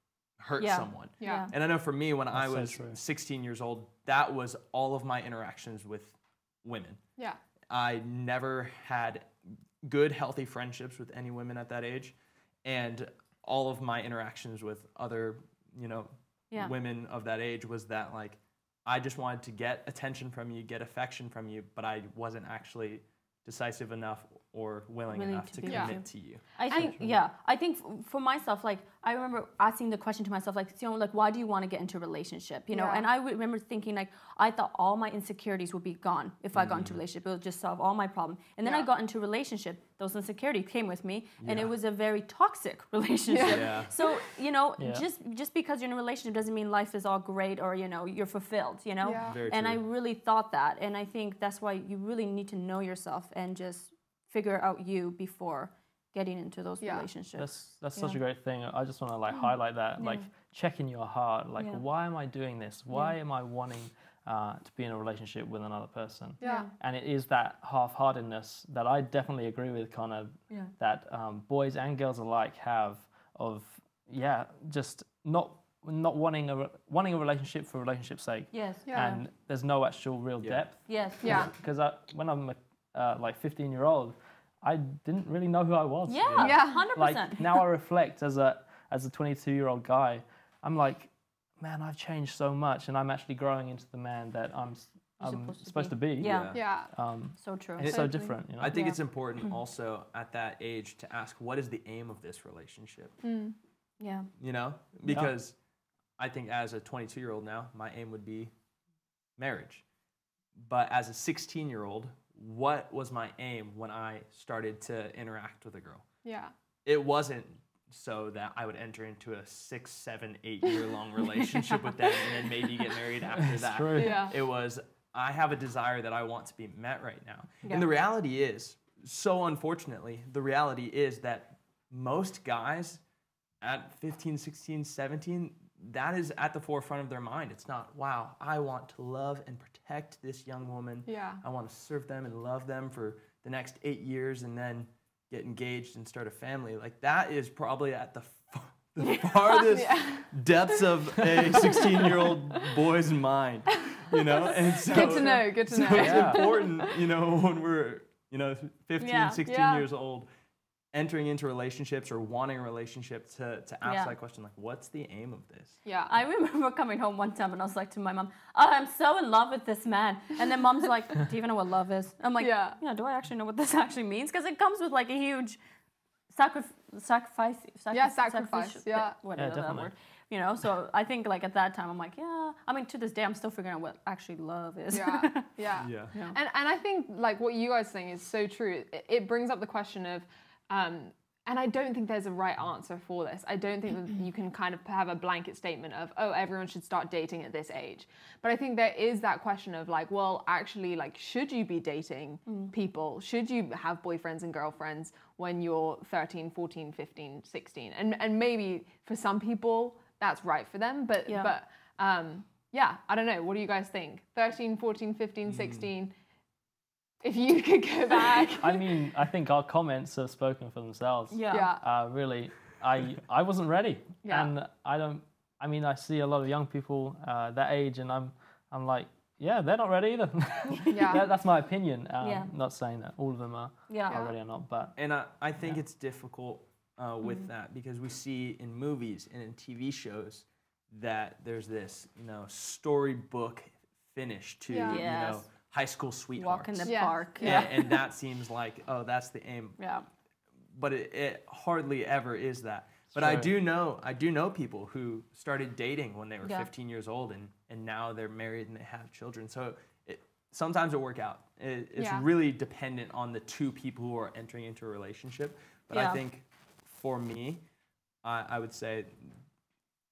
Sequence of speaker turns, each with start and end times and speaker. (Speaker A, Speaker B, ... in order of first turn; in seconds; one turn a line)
Speaker A: 0.4-7.0
Speaker B: 0.6-1.5
Speaker C: 1.2-1.5
Speaker D: 2.3-3.0
Speaker A: 7.7-9.3
Speaker A: 9.8-26.4
Speaker B: 25.1-58.2
Speaker C: 25.6-25.9
Speaker D: 26.7-27.2
Speaker C: 32.7-33.0
Speaker A: 36.5-37.0
Speaker C: 38.6-38.9
Speaker A: 41.4-41.7
Speaker C: 43.3-43.8
Speaker A: 43.5-43.9
Speaker D: 44.8-45.0
Speaker C: 49.0-49.4
Speaker A: 49.2-49.8
Speaker C: 56.8-57.1
Speaker D: 57.4-98.8
Speaker B: 59.3-60.3
Speaker B: 61.6-61.8
Speaker C: 66.4-66.7
Speaker B: 66.4-66.7
Speaker B: 78.5-78.8
Speaker C: 78.9-79.2
Speaker B: 80.8-81.5
Speaker C: 81.2-81.5
Speaker B: 86.1-87.6
Speaker A: 86.2-86.5
Speaker C: 86.4-86.9
Speaker B: 95.2-96.6
Speaker A: 96.2-96.6
Speaker C: 96.5-96.9
Speaker B: 97.4-99.0
Speaker A: 97.8-103.2
Speaker C: 103.2-103.5
Speaker B: 104.0-104.3
Speaker A: 104.4-105.5
Speaker D: 105.1-105.3
Speaker A: 106.2-108.5
Speaker A: 109.4-109.8
Speaker A: 110.6-116.0
Speaker C: 116.2-116.5
Speaker A: 116.8-133.0
Speaker D: 123.3-124.2
Speaker C: 124.0-124.3
Speaker A: 133.6-160.3
Speaker C: 141.1-141.4
Speaker C: 149.7-150.3
Speaker C: 151.5-151.9
Speaker C: 154.1-157.1
Speaker D: 155.7-156.5
Speaker B: 159.0-159.4
Speaker C: 159.4-159.8
Speaker A: 160.9-165.8
Speaker B: 163.8-164.1
Speaker C: 165.8-166.1
Speaker B: 166.1-175.6
Speaker C: 172.4-172.8
Speaker B: 176.3-185.5
Speaker C: 177.9-179.2
Speaker D: 179.3-179.9
Speaker C: 184.9-216.1
Speaker A: 185.8-186.1
Speaker B: 186.1-186.4
Speaker B: 202.5-202.7
Speaker B: 211.2-211.5
Speaker A: 215.5-215.8
Speaker C: 217.2-218.9
Speaker B: 218.1-218.5
Speaker D: 218.6-234.9
Speaker B: 221.3-221.7
Speaker C: 221.5-221.8
Speaker C: 224.2-224.5
Speaker C: 230.9-231.3
Speaker B: 232.2-232.5
Speaker B: 233.9-234.2
Speaker A: 234.9-249.8
Speaker C: 244.7-245.0
Speaker B: 244.8-245.4
Speaker B: 246.4-248.0
Speaker C: 246.8-247.7
Speaker B: 249.8-250.1
Speaker A: 250.7-267.6
Speaker D: 253.1-253.5
Speaker B: 256.4-256.7
Speaker C: 262.0-262.2
Speaker B: 265.9-266.2
Speaker A: 268.2-269.4